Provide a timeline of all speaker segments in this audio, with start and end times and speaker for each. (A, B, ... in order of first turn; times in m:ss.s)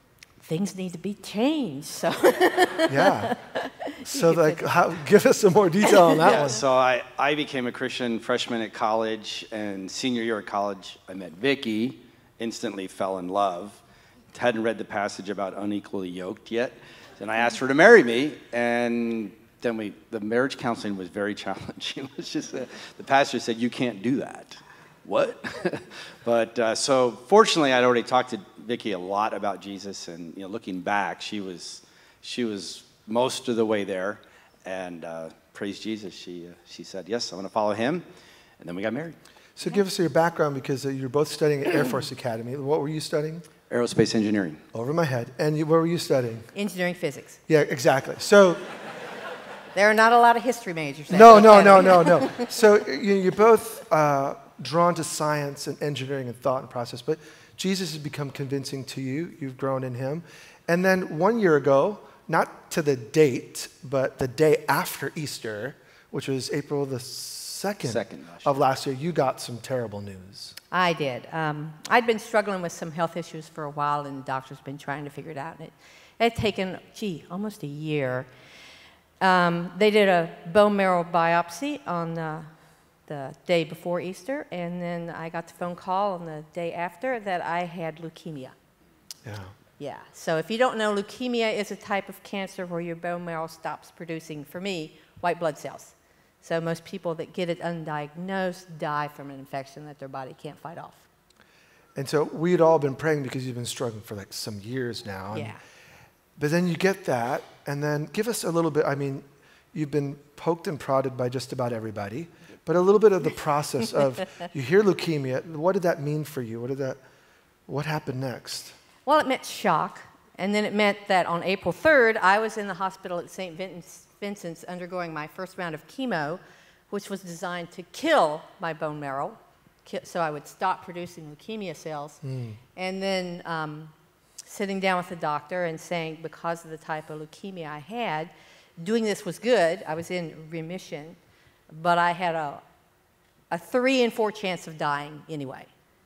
0:00.4-0:04.7 A
0:02.9-0:03.4 B
0:04.0-0:06.6 B
0:06.2-0:13.8 C
0:14.3-0:38.0 C
0:38.6-0:39.2 C
0:39.6-0:43.4 B
0:43.7-0:44.6 C
0:44.7-0:46.5 B
0:46.5-0:47.4 A
0:47.5-0:48.6 B
0:49.7-0:52.5 A
0:51.1-1:10.6 B
1:07.8-1:08.7 C
1:10.7-1:18.3 A
1:19.2-1:22.5 A
1:23.1-1:28.6 A
1:29.2-1:29.5 B
1:29.8-1:41.0 A
1:42.0-1:45.5 B
1:45.3-1:45.6 A
1:46.4-1:57.0 B
1:57.7-1:58.7 B
1:59.0-2:12.2 A
2:12.2-2:12.6 B
2:12.7-2:13.9 A
2:14.4-2:21.2 A
2:21.7-2:22.6 A
2:23.5-2:25.7 A